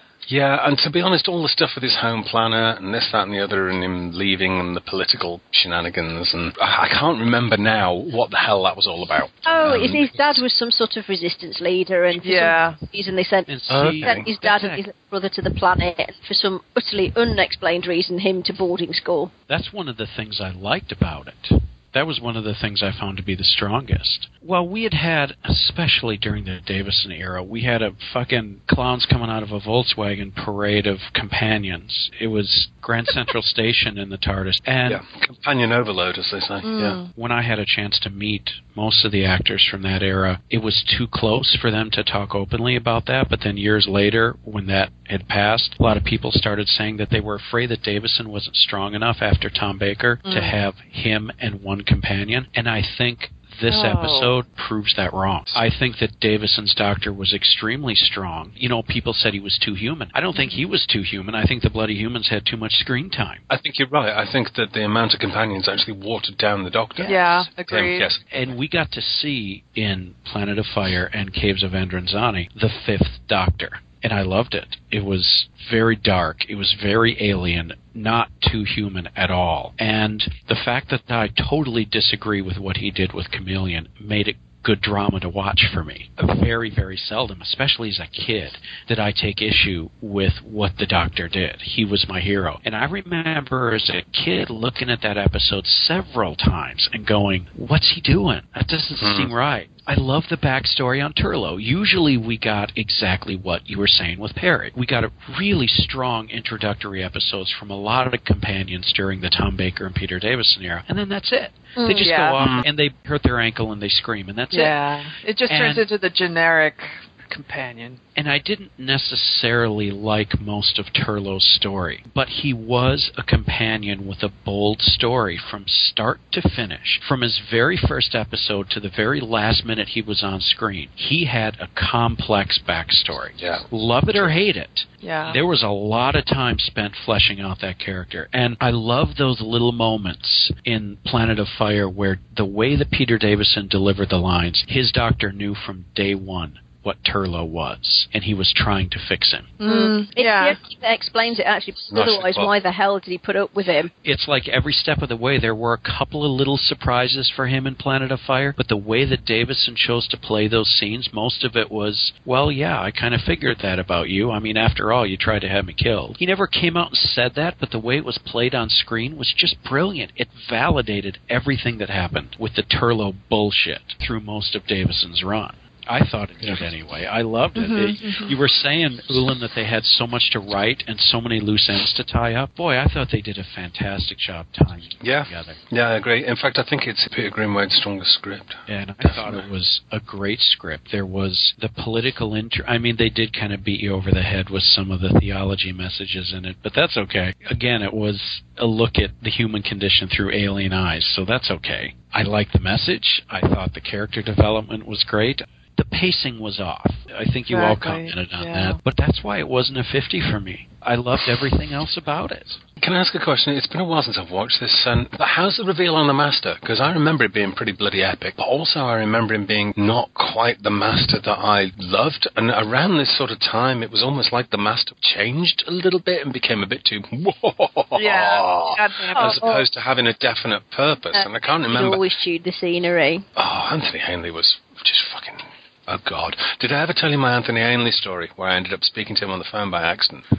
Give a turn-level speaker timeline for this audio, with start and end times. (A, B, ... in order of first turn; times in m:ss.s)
0:00.3-0:10.4 A
0:09.4-0:19.3 B
0:12.1-0:12.8 C
0:13.5-0:14.8 D
0:13.7-0:14.2 A
0:19.5-0:35.0 D
0:34.9-0:37.0 A
0:36.6-0:37.1 C
0:37.1-1:03.4 D
0:50.2-0:50.6 C
0:53.7-0:54.3 C
1:03.5-1:08.5 A
1:07.0-1:08.1 C
1:08.3-1:54.8 D
1:39.0-1:39.3 A
1:51.8-1:52.1 B
1:52.0-1:52.4 C
1:54.5-1:58.0 C
1:55.5-1:55.9 D
1:58.2-2:29.5 D
2:13.4-2:14.4 A
2:15.0-2:15.4 C
2:29.6-2:30.6 C
2:29.6-2:33.9 B
2:31.9-2:32.5 A
2:34.0-3:05.6 D
2:57.6-2:58.4 C
3:05.0-3:09.5 A
3:08.7-3:32.6 D
3:27.5-3:28.8 C
3:32.8-3:52.0 A
3:48.0-3:49.6 C
3:49.1-3:49.6 B
3:51.1-3:53.2 B
3:53.4-4:00.2 A